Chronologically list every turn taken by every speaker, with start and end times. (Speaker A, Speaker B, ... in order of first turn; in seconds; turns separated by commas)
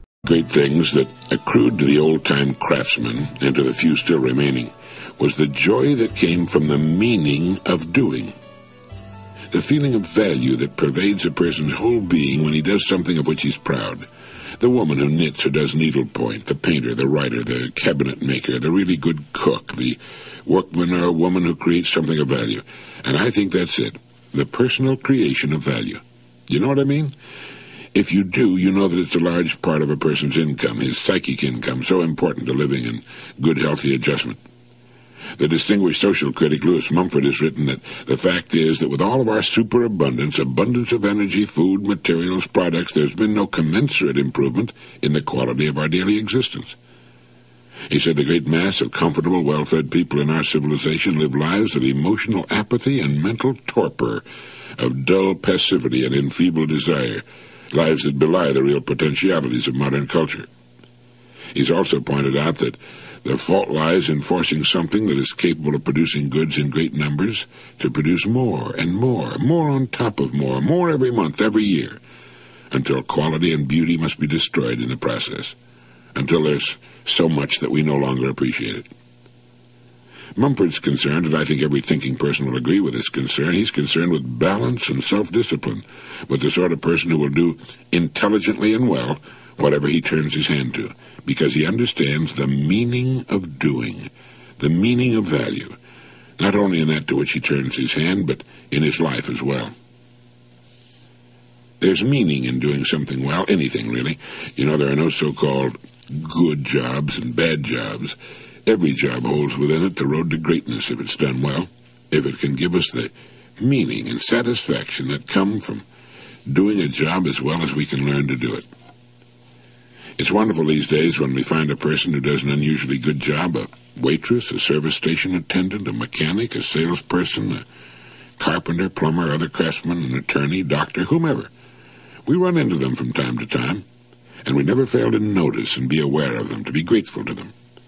Speaker A: 0.2-8.3, Speaker A: 9.5-14.1, Speaker A: 14.6-27.1, Speaker A: 27.9-34.4, Speaker A: 35.4-46.8, Speaker A: 47.9-54.3, Speaker A: 54.8-60.5, Speaker A: 61.5-72.0, Speaker A: 72.7-75.5, Speaker A: 76.1-78.9, Speaker A: 80.3-95.8, Speaker A: 96.4-99.7, Speaker A: 101.8-115.8, Speaker A: 116.5-118.7, Speaker A: 120.2-127.6, Speaker A: 128.4-131.5, Speaker A: 132.2-133.8, Speaker A: 134.4-137.5